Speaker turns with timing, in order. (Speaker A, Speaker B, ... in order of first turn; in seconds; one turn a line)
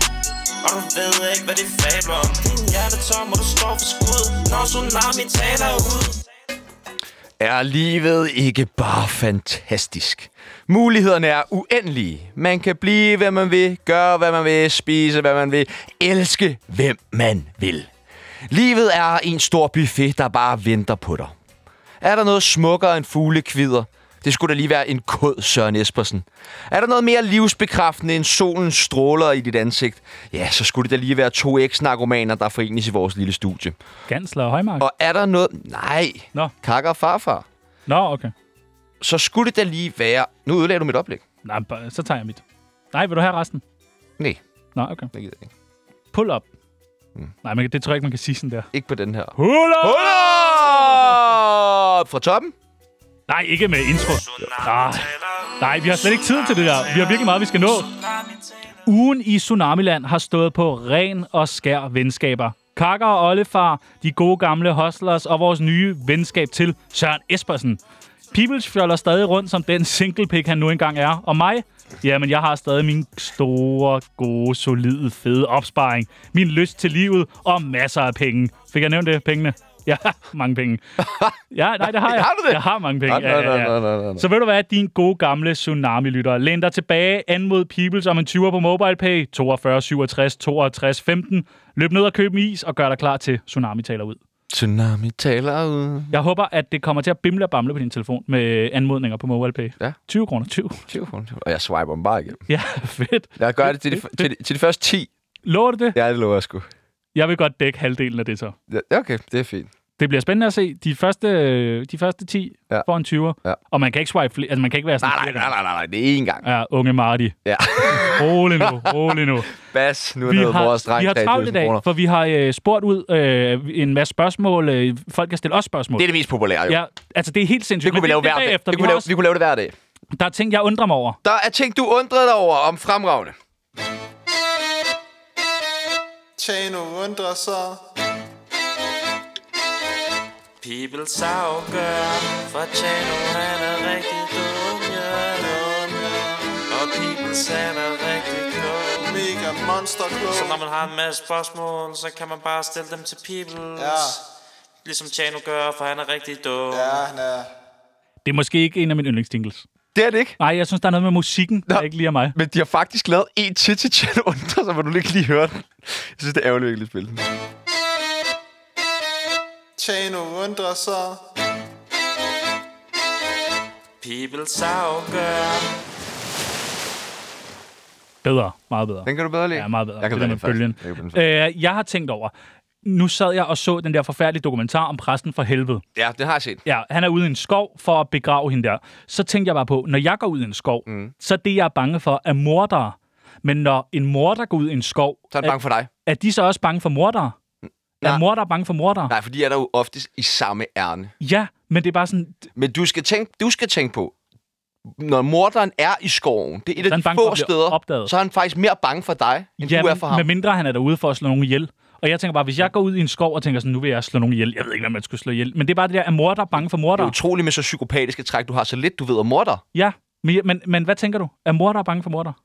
Speaker A: 0.6-6.2
Speaker B: 7.4-17.9
Speaker B: 18.5-21.3
Speaker B: 22.0-33.8
Speaker C: 34.1-34.9
Speaker B: 34.8-37.5
Speaker C: 37.9-38.3
Speaker B: 39.0-41.2
Speaker C: 41.4-43.6
Speaker C: 44.7-45.1
Speaker B: 45.1-45.5
Speaker C: 46.1-46.5
Speaker C: 47.4-48.7
Speaker B: 48.7-52.5
Speaker C: 49.4-51.3
Speaker C: 53.3-57.9
Speaker A: 54.1-58.8
Speaker C: 58.9-67.8
Speaker C: 68.3-94.2
Speaker B: 81.0-84.2
Speaker B: 94.5-96.1
Speaker C: 96.1-100.9
Speaker B: 100.9-102.4
Speaker C: 102.5-104.3
Speaker B: 103.4-105.1
Speaker C: 105.4-106.0
Speaker B: 105.9-106.7
Speaker C: 107.1-108.5
Speaker B: 108.7-109.7
Speaker C: 110.0-115.5
Speaker B: 115.0-116.4
Speaker C: 116.4-119.5
Speaker B: 117.4-121.8
Speaker C: 120.2-126.1
Speaker B: 126.0-126.8
Speaker C: 126.7-129.1
Speaker B: 127.8-129.7
Speaker C: 130.1-131.2
Speaker B: 131.2-133.3
Speaker D: 136.4-137.8
Speaker A: 140.6-145.6
Speaker D: 145.4-146.6
Speaker A: 146.7-149.3
Speaker D: 149.0-150.6
Speaker A: 150.3-154.2
Speaker D: 153.8-154.2
Speaker A: 154.8-157.0
Speaker D: 156.7-157.5
Speaker C: 158.2-159.7
Speaker B: 159.9-160.4
Speaker C: 160.4-162.3
Speaker B: 161.7-167.2
Speaker D: 169.8-171.2
Speaker A: 174.0-175.8
Speaker C: 178.2-182.3
Speaker B: 179.0-181.2
Speaker C: 182.8-185.8
Speaker B: 185.9-186.6
Speaker C: 186.6-197.3
Speaker B: 190.9-191.1
Speaker B: 195.3-195.9
Speaker C: 198.0-199.1
Speaker B: 199.1-201.1
Speaker C: 201.2-202.4
Speaker B: 202.5-204.1
Speaker B: 204.9-210.2
Speaker C: 206.8-208.1
Speaker C: 209.6-217.1
Speaker B: 216.9-219.6
Speaker C: 219.7-222.3